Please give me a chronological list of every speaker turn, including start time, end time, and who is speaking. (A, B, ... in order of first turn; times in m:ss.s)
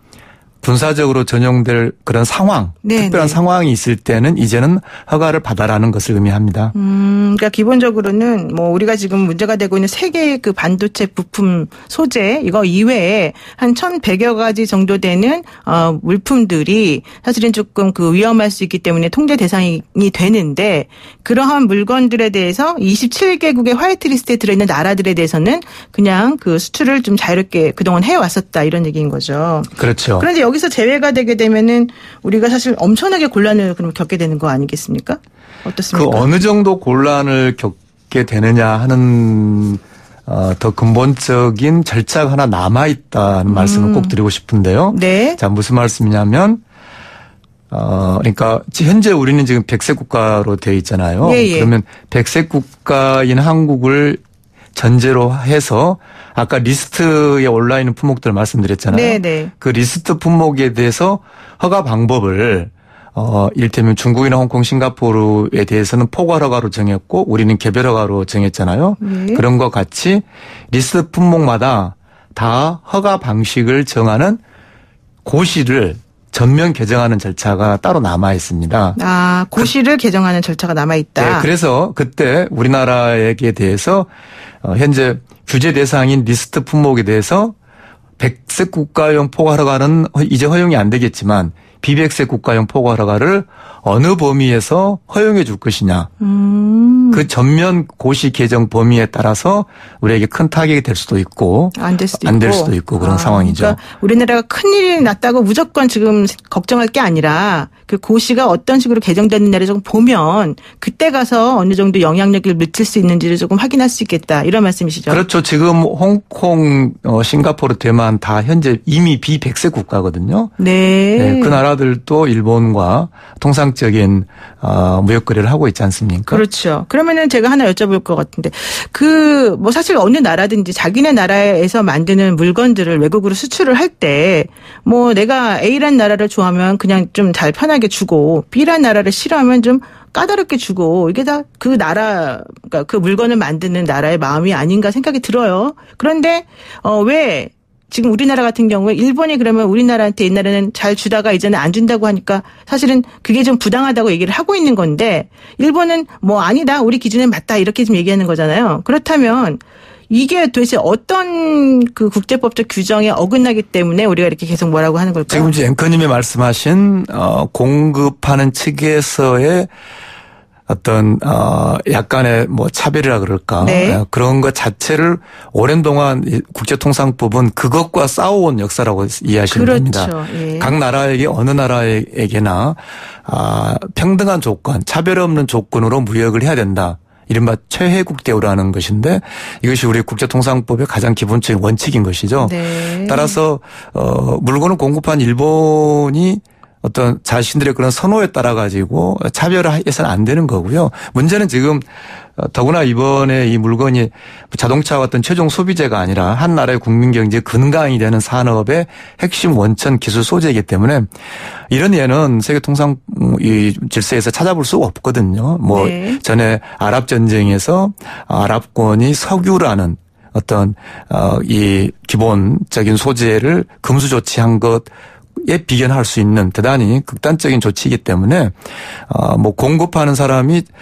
0:00.6-0:06.7 A
0:02.8-0:03.4 B
0:06.7-0:36.3 B
0:29.8-0:30.3 A
0:35.9-0:46.6 A
0:43.5-0:44.1 B
0:44.9-0:45.4 B
0:47.7-0:54.2 A
0:51.2-0:51.7 B
0:54.7-1:14.4 A
0:58.9-0:59.5 B
1:09.0-1:09.4 B
1:15.2-1:19.0 A
1:19.0-1:21.5 B
1:21.2-1:24.1 A
1:24.6-1:27.5 A
1:28.2-1:36.1 A
1:36.2-1:37.2 B
1:37.1-1:43.8 A
1:41.8-1:55.2 B
1:55.1-2:00.5 A
2:00.6-2:01.6 B
2:01.2-2:06.4 A
2:06.3-2:45.5 B
2:45.3-2:49.7 A
2:50.7-3:31.1 A
2:53.6-2:54.0 B
2:59.5-3:00.7 B
3:12.4-3:13.4 B
3:31.7-3:50.7 A
3:35.7-3:36.2 B